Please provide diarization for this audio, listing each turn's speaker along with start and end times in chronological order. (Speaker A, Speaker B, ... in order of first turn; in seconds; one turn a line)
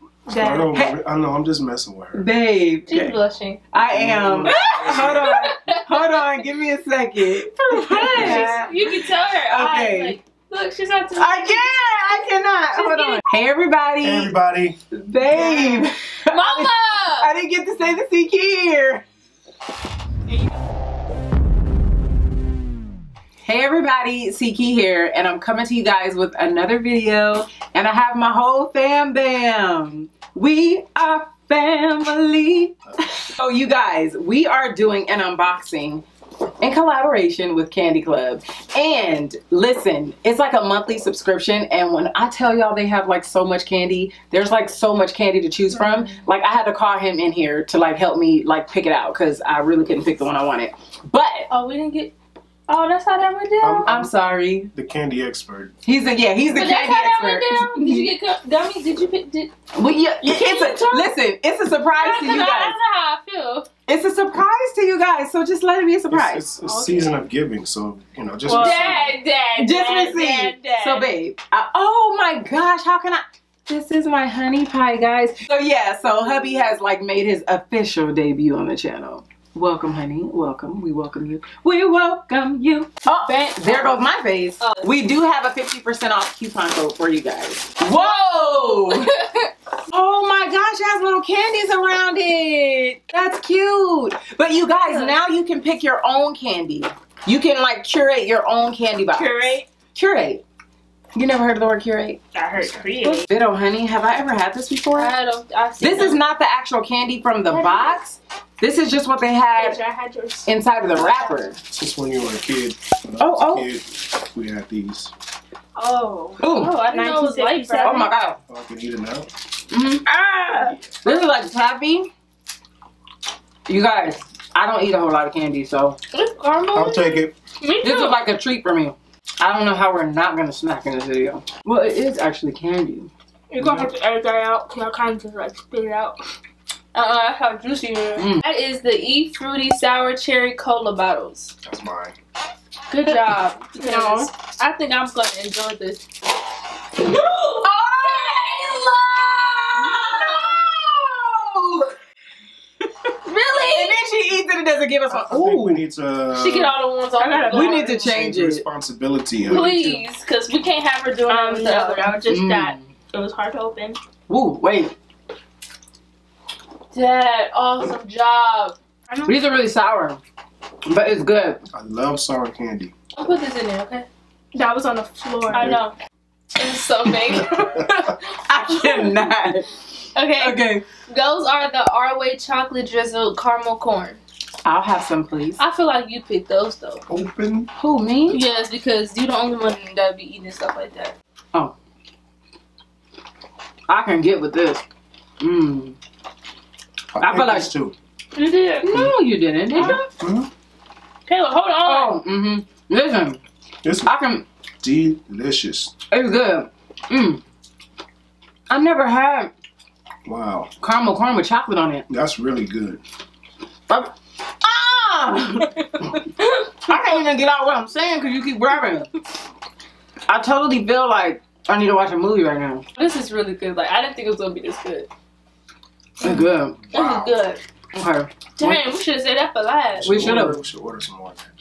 Speaker A: 0.3-0.7
Speaker B: 0.3-2.2
Speaker C: 2.1-3.1
Speaker D: 2.9-3.6
Speaker C: 3.7-10.2
Speaker B: 3.9-5.4
Speaker D: 4.5-6.2
Speaker A: 7.7-8.2
Speaker D: 7.8-11.8
Speaker B: 8.1-8.6
Speaker C: 11.2-14.3
Speaker D: 12.7-13.2
Speaker B: 14.0-15.8
Speaker C: 14.9-19.0
Speaker D: 16.3-17.3
Speaker C: 23.4-36.0
Speaker C: 36.6-51.5
Speaker D: 45.8-46.1
Speaker D: 51.5-52.1
Speaker D: 52.7-53.9
Speaker B: 53.6-54.1
Speaker C: 53.8-54.7
Speaker B: 54.7-55.7
Speaker C: 55.8-58.1
Speaker D: 56.4-59.5
Speaker C: 59.7-62.7
Speaker A: 60.2-61.0
Speaker D: 60.3-61.0
Speaker D: 61.9-63.7
Speaker C: 63.9-66.5
Speaker B: 66.1-69.1
Speaker A: 66.6-67.2
Speaker A: 68.5-68.9
Speaker D: 68.5-71.1
Speaker C: 69.5-89.1
Speaker D: 83.2-84.1
Speaker D: 84.6-84.9
Speaker D: 87.9-89.5
Speaker C: 89.9-100.4
Speaker D: 94.7-95.2
Speaker D: 99.2-99.6
Speaker C: 101.1-102.2
Speaker A: 102.3-103.2
Speaker C: 103.0-105.1
Speaker D: 104.9-106.2
Speaker C: 105.8-109.8
Speaker D: 107.5-108.0
Speaker A: 109.6-110.5
Speaker C: 110.5-111.6
Speaker D: 111.0-111.4
Speaker B: 111.7-115.1
Speaker C: 113.2-113.7
Speaker A: 115.8-118.1
Speaker C: 116.4-116.8
Speaker D: 116.5-118.1
Speaker C: 117.8-118.4
Speaker B: 118.5-119.3
Speaker C: 119.7-120.0
Speaker A: 120.1-120.7
Speaker C: 121.0-122.1
Speaker C: 123.7-126.0
Speaker D: 126.1-128.2
Speaker B: 126.7-127.3
Speaker C: 127.8-133.1
Speaker A: 133.5-136.2
Speaker B: 133.6-133.9
Speaker D: 136.9-141.5
Speaker C: 138.2-138.4
Speaker B: 141.6-142.2
Speaker C: 142.9-144.3
Speaker D: 143.0-146.0
Speaker D: 147.0-148.8
Speaker C: 147.0-151.9
Speaker D: 149.8-150.5
Speaker D: 153.2-154.1
Speaker C: 153.5-155.8
Speaker B: 155.1-156.8
Speaker D: 156.3-158.0
Speaker A: 157.2-158.1
Speaker C: 157.5-158.6
Speaker B: 157.8-160.0
Speaker D: 159.4-162.2
Speaker A: 161.3-164.0
Speaker C: 162.2-162.9
Speaker C: 164.3-164.9
Speaker D: 166.9-168.8
Speaker C: 169.2-170.2
Speaker C: 170.8-171.6
Speaker B: 171.7-172.9
Speaker D: 173.2-174.1
Speaker A: 174.5-175.7
Speaker D: 175.5-175.9
Speaker D: 176.6-179.2
Speaker B: 177.5-177.8
Speaker C: 178.4-179.7
Speaker D: 180.1-184.2
Speaker C: 180.4-180.8
Speaker C: 184.6-185.6
Speaker D: 185.6-187.0
Speaker B: 187.1-187.7
Speaker C: 187.8-188.4
Speaker D: 188.3-191.1
Speaker C: 193.9-194.8
Speaker C: 195.4-195.9
Speaker B: 197.1-197.9
Speaker C: 197.2-197.7
Speaker D: 198.3-198.9
Speaker C: 198.8-200.0
Speaker B: 199.8-200.5
Speaker D: 201.3-202.2
Speaker C: 201.8-203.4
Speaker B: 203.8-204.1
Speaker C: 204.0-204.4
Speaker B: 204.8-205.9
Speaker C: 206.1-207.4
Speaker C: 208.7-209.5
Speaker B: 210.2-210.7
Speaker C: 210.8-212.1
Speaker B: 212.1-213.0
Speaker C: 213.9-216.2
Speaker D: 216.4-216.9
Speaker C: 216.8-219.1
Speaker C: 220.3-222.8
Speaker D: 222.9-225.1
Speaker D: 226.2-227.6
Speaker C: 226.2-226.8
Speaker B: 226.9-227.4
Speaker C: 227.9-228.8
Speaker D: 228.6-230.2
Speaker B: 230.0-231.5
Speaker C: 230.0-230.6